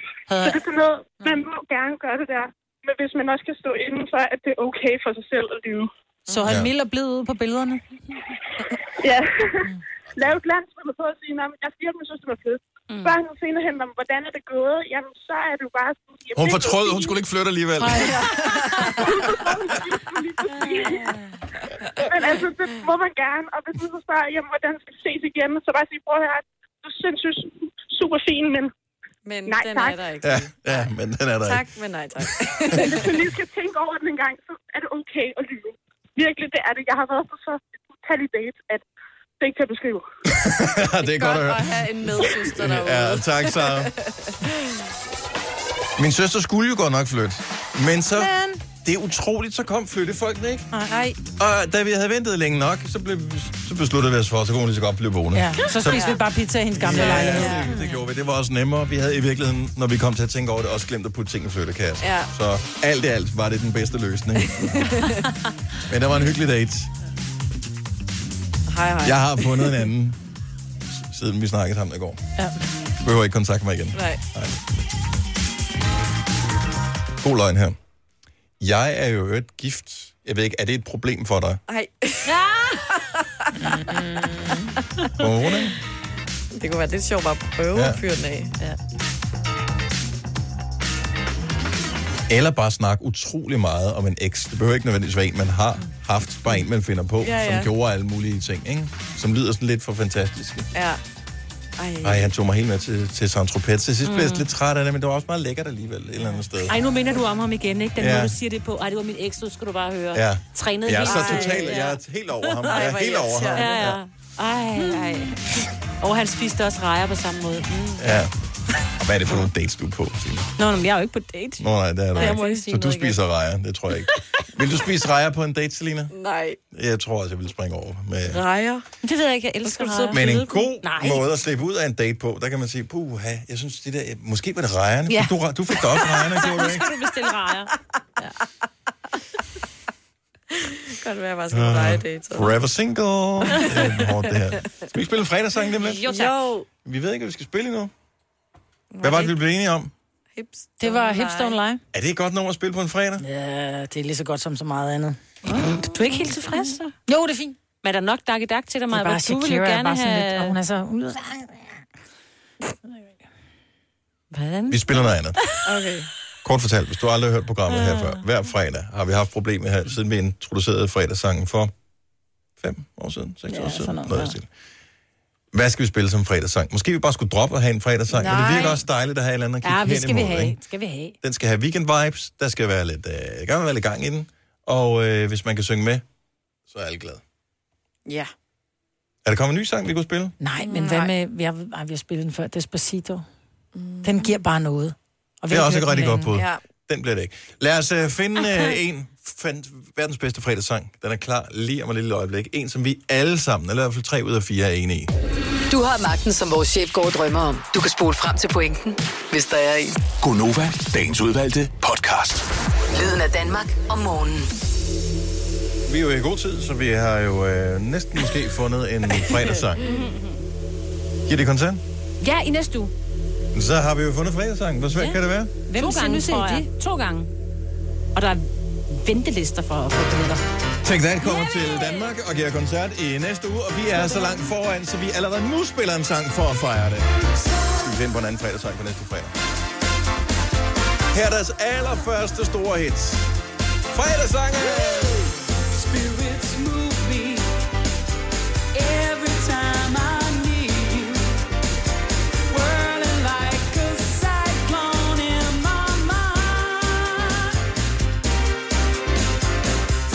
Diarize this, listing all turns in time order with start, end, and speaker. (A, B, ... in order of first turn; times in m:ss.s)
0:00.3-0:00.6 A
0:00.4-0:05.9 B
0:06.3-0:07.8 A
0:09.0-0:17.2 B
0:12.9-0:13.2 C
0:16.4-0:18.2 D
0:17.8-0:18.2 A
0:17.9-0:19.4 E
0:18.9-0:21.2 B
0:22.0-0:28.7 B
0:29.2-0:30.9 E
0:29.5-0:30.0 B
0:30.2-0:31.6 D
0:31.4-0:33.1 E
0:32.7-0:38.8 B
0:39.4-0:40.0 B
0:40.3-0:43.9 D
0:40.8-0:44.5 E
0:46.0-0:50.7 D
0:48.2-0:48.6 A
0:50.9-0:51.2 E
0:51.4-0:56.2 D
0:55.3-0:57.7 A
0:55.9-0:56.2 E
0:56.7-1:05.1 D
0:56.9-0:57.7 E
1:02.0-1:02.3 E
1:04.4-1:05.2 E
1:05.9-1:06.9 D
1:08.7-1:09.9 E
1:09.0-1:10.2 D
1:10.9-1:12.2 D
1:13.0-1:14.6 D
1:13.9-1:14.2 E
1:17.2-1:17.8 D
1:18.6-1:21.6 D
1:21.7-1:22.3 E
1:22.3-1:22.8 C
1:23.9-1:24.6 E
1:23.9-1:24.6 C
1:25.2-1:25.8 D
1:26.5-1:28.5 E
1:27.7-1:28.0 D
1:32.3-1:40.7 D
1:37.2-1:37.7 E
1:40.7-1:41.0 E
1:41.8-1:42.3 E
1:42.0-1:46.8 D
1:44.0-1:44.5 C
1:46.6-1:51.9 C
1:48.0-1:48.3 D
1:50.1-1:54.0 D
1:51.0-1:51.9 E
1:52.4-1:52.9 C
1:52.7-1:53.7 E
1:53.5-1:55.4 C
1:56.0-1:58.2 C
1:58.0-1:58.3 D
1:59.0-2:00.5 D
2:00.6-2:01.6 C
2:01.6-2:06.1 D
2:02.2-2:03.2 C
2:02.2-2:02.6 E
2:06.1-2:06.6 E
2:06.7-2:08.4 D
2:08.3-2:08.8 E
2:09.0-2:11.2 C
2:09.6-2:10.3 E
2:10.1-2:16.9 D
2:15.1-2:15.3 C
2:16.0-2:18.3 C
2:20.5-2:22.5 E
2:21.5-2:26.2 D
2:23.5-2:24.1 E
2:25.8-2:26.7 E
2:26.0-2:26.5 C
2:26.8-2:27.9 D
2:28.9-2:29.4 E
2:29.0-2:29.9 D
2:30.4-2:31.6 E
2:30.8-2:31.8 A
2:31.9-2:33.2 D
2:33.2-2:35.2 A
2:35.5-2:36.9 C
2:37.1-2:37.6 A
2:37.8-2:40.6 C
2:38.9-2:41.8 A
2:44.3-2:45.7 C
2:44.7-2:45.4 D
2:45.6-2:46.1 E
2:46.4-2:51.7 D
2:47.7-2:48.2 C
2:52.6-2:54.5 D
2:53.5-2:54.3 A
2:55.5-3:00.6 D
2:58.1-2:58.8 E
2:59.6-3:01.2 A
3:01.2-3:06.0 D
3:06.7-3:07.2 D
3:08.1-3:08.3 E
3:09.2-3:10.3 D
3:10.4-3:13.2 A
3:10.6-3:11.1 E
3:13.7-3:14.3 E
3:14.0-3:16.3 A
3:15.5-3:25.1 D
3:16.3-3:16.6 E
3:25.7-3:30.0 F
3:30.2-3:32.4 G
3:32.9-3:34.5 F
3:35.9-3:39.8 D
3:39.8-3:40.4 C
3:41.3-3:41.8 D
3:42.2-3:42.9 C
3:43.5-3:45.5 D
3:45.7-3:46.7 A
3:45.7-3:47.3 C
3:48.2-3:50.4 C
3:50.8-3:57.1 D
3:57.6-3:59.3 D
4:01.1-4:03.3 D
4:03.9-4:05.3 D
4:05.8-4:07.4 H
4:09.0-4:11.2 H
4:12.5-4:14.2 C
4:13.2-4:14.7 H
4:14.7-4:15.4 C
4:15.6-4:15.8 H